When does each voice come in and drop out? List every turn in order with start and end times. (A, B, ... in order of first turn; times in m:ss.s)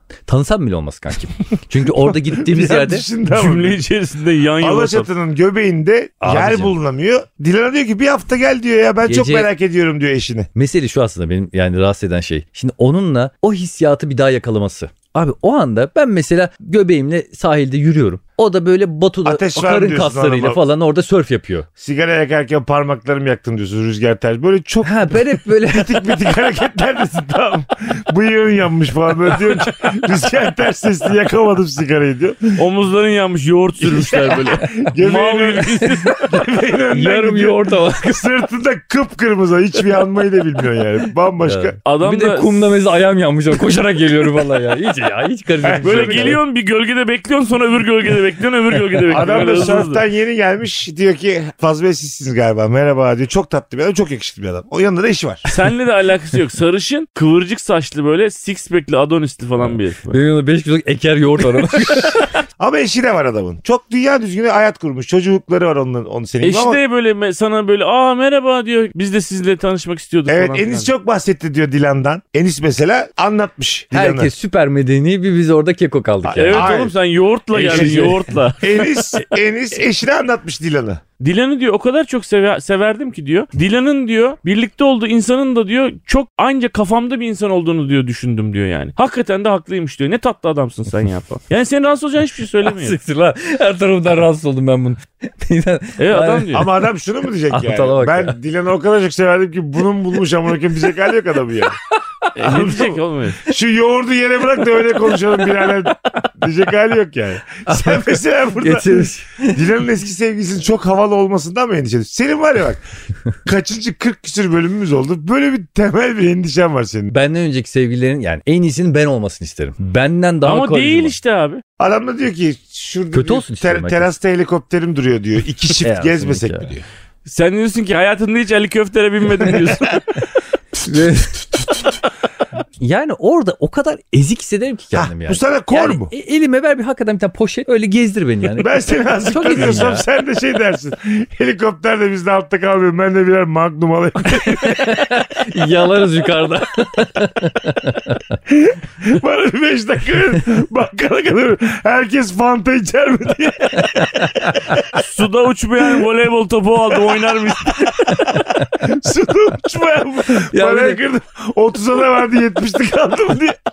0:00.3-0:03.0 A
0:02.0-0:03.8 B
0:03.3-0:05.1 C
0:04.6-0:10.5 B
0:06.2-0:06.7 A
0:09.0-0:09.5 A
0:10.5-0:21.7 A
0:19.2-0:20.6 B
0:21.8-0:32.6 B
0:24.8-0:26.0 A
0:32.6-0:36.3 C
0:33.8-0:41.8 B
0:36.9-0:38.3 A
0:41.4-0:46.4 A
0:41.8-0:42.7 C
0:45.6-0:46.4 B
0:45.8-0:50.0 C
0:49.1-0:55.5 B
0:55.5-1:00.1 C
0:59.6-1:02.3 A
1:02.6-1:06.8 B
1:06.4-1:10.9 C
1:10.3-1:14.3 B
1:13.9-1:16.8 A
1:16.2-1:16.9 B
1:16.4-1:19.0 C
1:17.5-1:18.4 A
1:17.6-1:21.0 B
1:21.2-1:33.0 C
1:32.6-1:36.7 A
1:36.0-1:36.7 C
1:36.5-1:41.8 B
1:37.5-1:38.3 A
1:42.2-1:42.7 A
1:42.3-1:43.4 C
1:42.4-1:52.8 B
1:47.6-1:49.6 A
1:53.4-1:57.1 B
1:57.1-2:01.1 A
2:00.4-2:01.6 C
2:01.8-2:06.8 B
2:03.1-2:04.1 A
2:05.8-2:06.7 A
2:07.2-2:10.3 C
2:09.5-2:09.9 B
2:10.8-2:11.8 A
2:12.8-2:20.0 A
2:14.9-2:16.1 B
2:18.6-2:25.1 B
2:24.4-2:28.4 A
2:28.5-2:34.8 B
2:34.0-2:34.6 A
2:34.9-2:38.4 C
2:38.1-2:38.7 A
2:38.7-2:43.6 B
2:40.3-2:41.0 A